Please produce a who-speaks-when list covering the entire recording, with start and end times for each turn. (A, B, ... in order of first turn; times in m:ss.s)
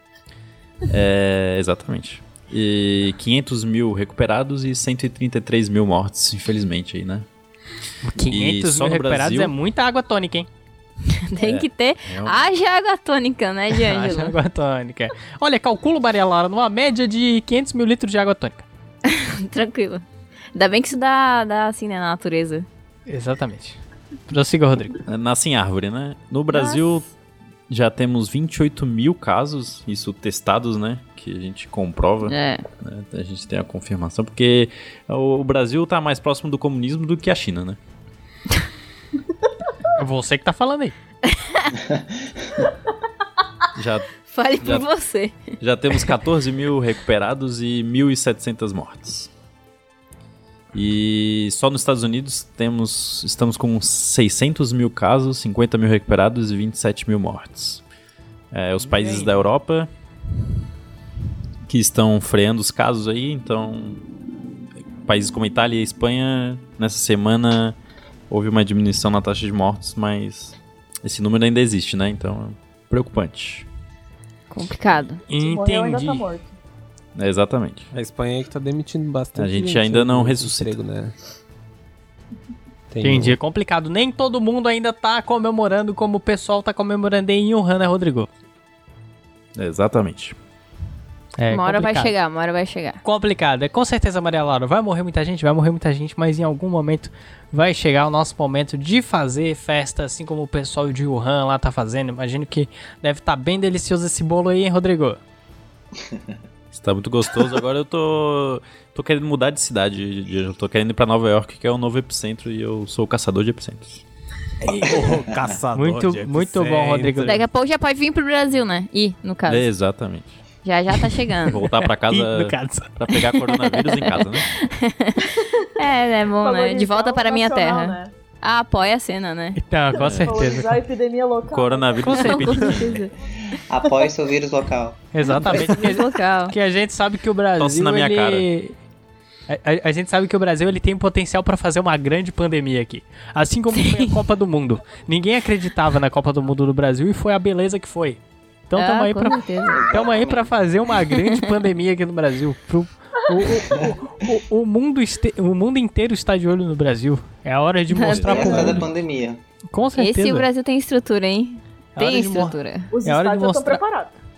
0:00.9-0:07.2 A
0:08.0-0:10.5 B
0:08.2-0:09.5 A
0:11.1-0:14.3 C
0:11.4-0:12.4 A
0:13.7-0:18.6 B
0:19.0-0:20.0 C
0:20.5-0:22.6 C
0:23.1-0:25.0 B
0:25.1-0:27.1 A
0:26.5-0:26.8 C
0:27.7-0:37.8 A
0:32.2-0:32.6 C
0:39.9-0:41.0 B
0:41.2-0:41.7 C
0:43.7-0:44.9 A
0:44.2-0:45.4 C
0:45.6-0:49.3 A
0:50.7-0:57.8 A
0:58.5-0:59.9 A
0:58.8-0:59.4 B
1:01.7-1:04.0 A
1:05.0-1:07.8 A
1:08.3-1:13.7 A
1:14.5-1:15.2 C
1:15.3-1:16.2 B
1:15.4-1:16.5 D
1:17.2-1:17.9 A
1:17.9-1:21.1 E
1:19.4-1:20.8 A
1:22.9-1:23.4 E
1:23.0-1:28.3 B
1:29.6-1:30.3 A
1:31.4-1:32.1 B
1:31.5-1:33.0 C
1:33.0-1:45.2 B
1:46.7-1:54.0 A
1:54.6-1:57.4 E
1:54.7-1:55.2 F
1:55.7-1:57.4 B
1:57.2-1:59.7 C
1:59.5-2:00.4 A
2:00.6-2:01.7 C
2:01.4-2:04.5 A
2:02.1-2:03.2 B
2:03.6-2:09.6 C
2:06.4-2:08.1 D
2:09.6-2:10.7 B
2:09.9-2:10.5 A
2:10.0-2:12.2 D
2:11.5-2:13.1 A
2:12.0-2:12.8 B
2:12.0-2:13.1 C
2:13.5-2:15.6 F
2:15.1-2:18.8 B
2:15.3-2:16.5 C
2:17.6-2:18.5 A
2:19.5-2:38.8 B
2:23.7-2:24.1 C
2:28.8-2:29.8 C
2:29.7-2:30.5 F
2:31.1-2:31.5 C
2:33.7-2:33.9 F
2:37.9-2:38.3 C
2:38.1-2:38.9 A
2:38.1-2:39.4 F
2:39.7-2:40.5 B
2:40.0-2:42.9 C
2:42.0-2:43.8 B
2:42.9-2:44.1 D